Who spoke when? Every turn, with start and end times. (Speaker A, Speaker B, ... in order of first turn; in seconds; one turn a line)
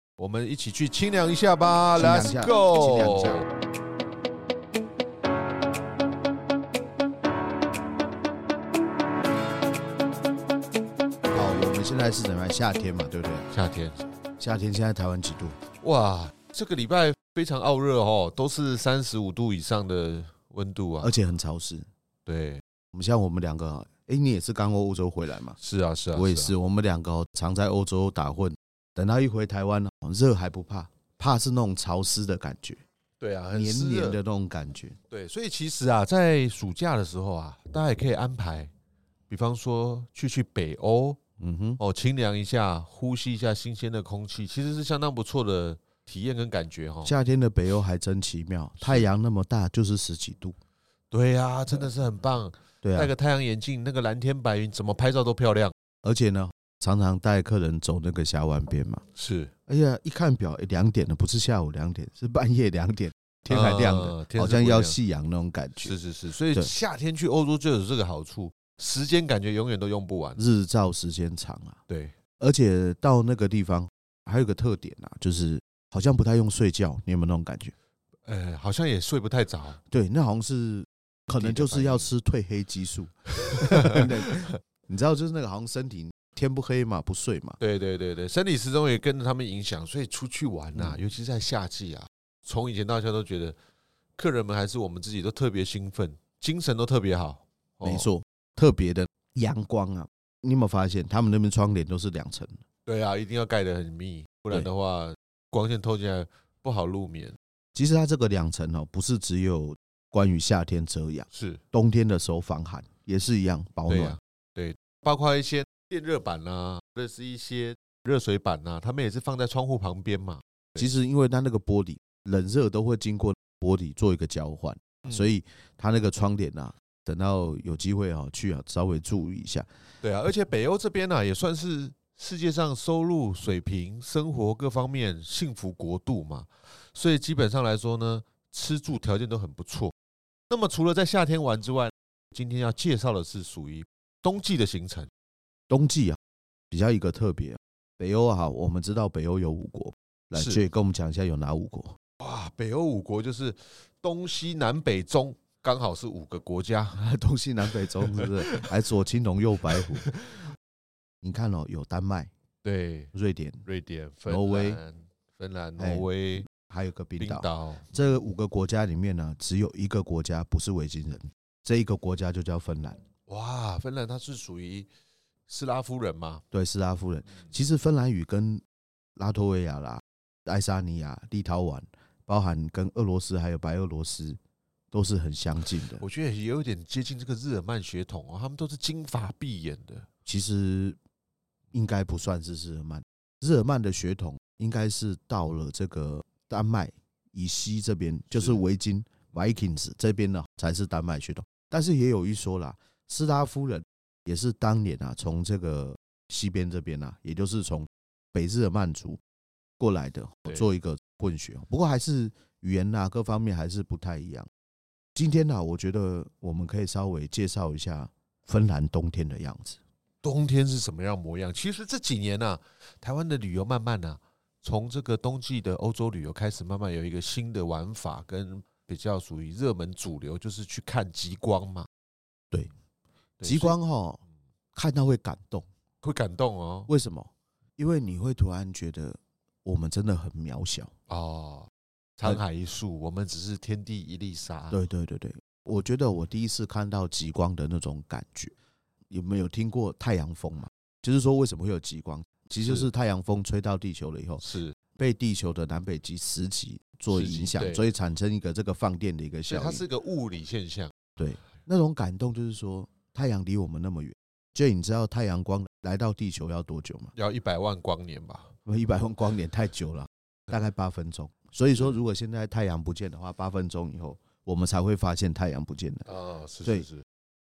Speaker A: 0.2-3.5
Speaker B: 2.0-3.5
Speaker B: 11.3-13.5
Speaker A: 13.5-14.0
Speaker B: 14.4-15.6
Speaker A: 15.8-21.1
Speaker B: 21.0-21.9
Speaker A: 22.3-22.6
Speaker B: 22.9-25.6
Speaker A: 25.6-26.6
Speaker B: 26.1-32.8
Speaker A: 33.2-34.2
Speaker B: 33.5-35.0
Speaker A: 35.1-38.7
Speaker A: 39.3-41.2
Speaker B: 41.4-41.8
Speaker A: 41.8-47.1
Speaker B: 47.0-50.6
Speaker A: 48.8-49.1
Speaker A: 51.1-55.7
Speaker B: 52.8-53.1
Speaker B: 56.0-59.0
Speaker A: 59.1-59.5
Speaker B: 59.7-66.0
Speaker A: 63.5-65.0
Speaker A: 65.8-70.4
Speaker B: 70.4-71.8
Speaker A: 71.9-72.2
Speaker B: 72.4-77.7
Speaker A: 78.2-79.8
Speaker B: 79.9-87.6
Speaker A: 81.3-82.1
Speaker A: 83.4-84.5
Speaker A: 87.6-93.6
Speaker A: 94.2-98.1
Speaker B: 97.8-102.6
Speaker A: 102.9-107.4
Speaker B: 107.8-114.2
Speaker A: 111.3-111.6
Speaker A: 113.9-120.8
Speaker B: 120.8-129.7
Speaker A: 130.0-139.9
Speaker A: 140.5-145.1
Speaker B: 145.7-146.2
Speaker B: 146.7-152.0
Speaker A: 150.3-150.6
Speaker A: 152.2-157.0
Speaker B: 156.9-160.1
Speaker A: 157.7-158.7
Speaker A: 159.7-160.5
Speaker B: 161.2-162.3
Speaker A: 162.6-163.1
Speaker B: 163.1-163.7
Speaker A: 163.7-166.5
Speaker B: 164.3-164.8
Speaker B: 165.8-173.0
Speaker A: 167.2-167.9
Speaker A: 173.3-174.9
Speaker A: 175.5-176.4
Speaker B: 176.5-178.6
Speaker B: 179.2-184.4
Speaker B: 184.9-186.0
Speaker A: 186.0-190.1
Speaker B: 190.2-191.0
Speaker B: 191.7-209.2
Speaker A: 198.3-198.6
Speaker B: 209.8-214.5
Speaker B: 215.2-219.8
Speaker A: 220.2-231.9
Speaker A: 233.4-233.8
Speaker B: 233.4-234.2
Speaker B: 234.8-235.7
Speaker A: 236.0-236.9
Speaker B: 236.9-240.9
Speaker A: 241.1-244.8
Speaker B: 244.7-248.6
Speaker B: 249.1-254.4
Speaker A: 252.6-252.9
Speaker A: 254.4-254.8
Speaker B: 255.0-259.8
Speaker A: 257.1-257.9
Speaker A: 259.5-260.9
Speaker B: 261.2-267.1
Speaker A: 267.1-268.5
Speaker B: 268.7-276.1
Speaker A: 276.1-277.0